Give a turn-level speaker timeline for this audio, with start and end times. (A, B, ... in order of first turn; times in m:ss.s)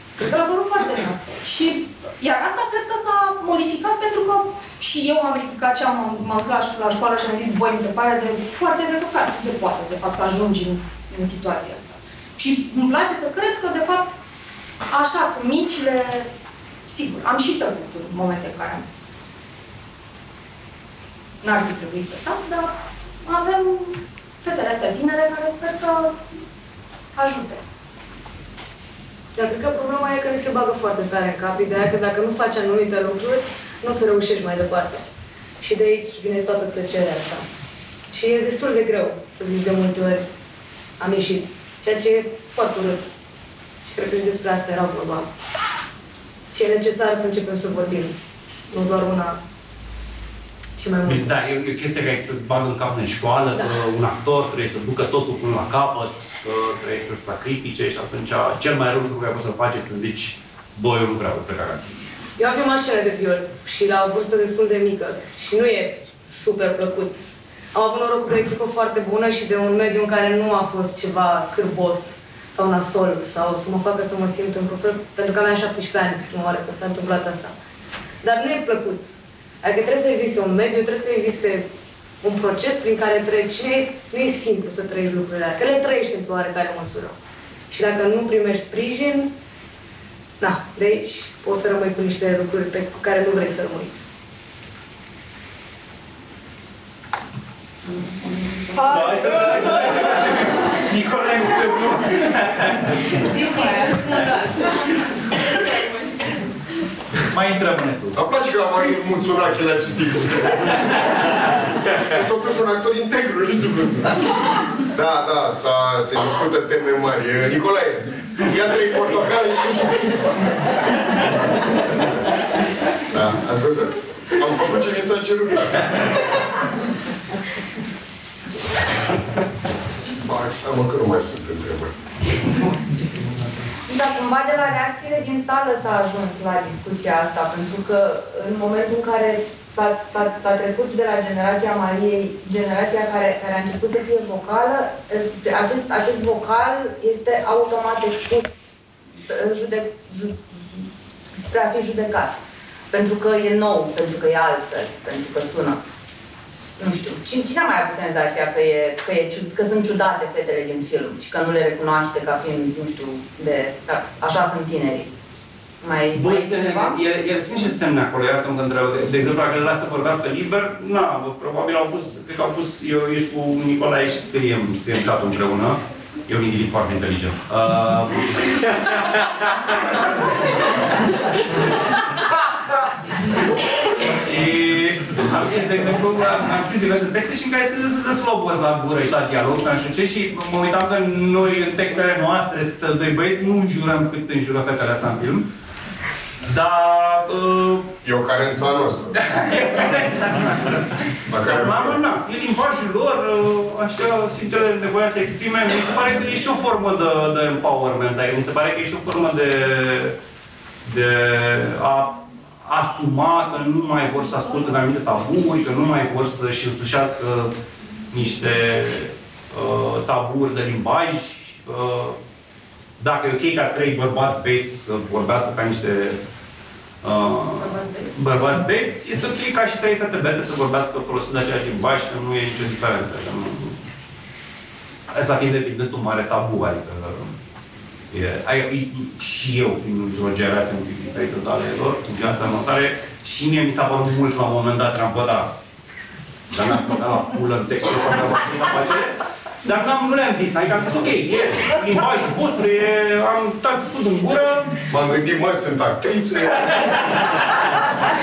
0:00.2-0:14.2 A
0:14.9-0:16.3 A
0:16.9-0:18.8 A
0:21.4-0:26.2 A
0:27.2-0:27.6 A
0:29.3-0:35.0 B
0:35.6-0:37.4 B
0:38.1-0:40.2 B
0:41.0-0:43.1 B
0:43.8-0:45.3 B
0:46.5-0:48.2 B
0:48.7-0:49.4 B
0:50.8-0:51.3 B
0:51.0-1:02.0 C
1:02.4-1:07.2 B
1:07.7-1:17.5 B
1:18.2-1:21.7 B
1:22.2-1:27.2 B
1:27.7-1:29.3 B
1:30.4-1:33.9 B
1:37.9-1:39.1 D
1:38.8-1:43.3 C
1:43.3-1:44.3 D
1:47.3-1:48.2 C
1:48.1-2:01.3 E
2:03.1-2:06.4 E
2:10.2-2:11.9 E
2:13.9-2:32.4 D
2:32.9-2:35.8 D
2:36.8-2:45.1 D
2:45.8-2:47.0 D
2:46.1-3:00.4 C
3:03.3-3:15.5 C
3:16.4-3:17.9 C
3:18.0-3:19.2 E
3:19.2-3:30.1 C
3:21.3-3:22.0 E
3:30.8-3:37.5 C
3:38.1-3:42.2 C
3:43.0-3:46.2 C
3:47.0-3:53.8 C
3:47.6-3:48.4 A
3:55.1-3:57.3 C
3:58.1-4:05.5 C
4:06.5-4:14.8 C
4:14.9-4:17.4 E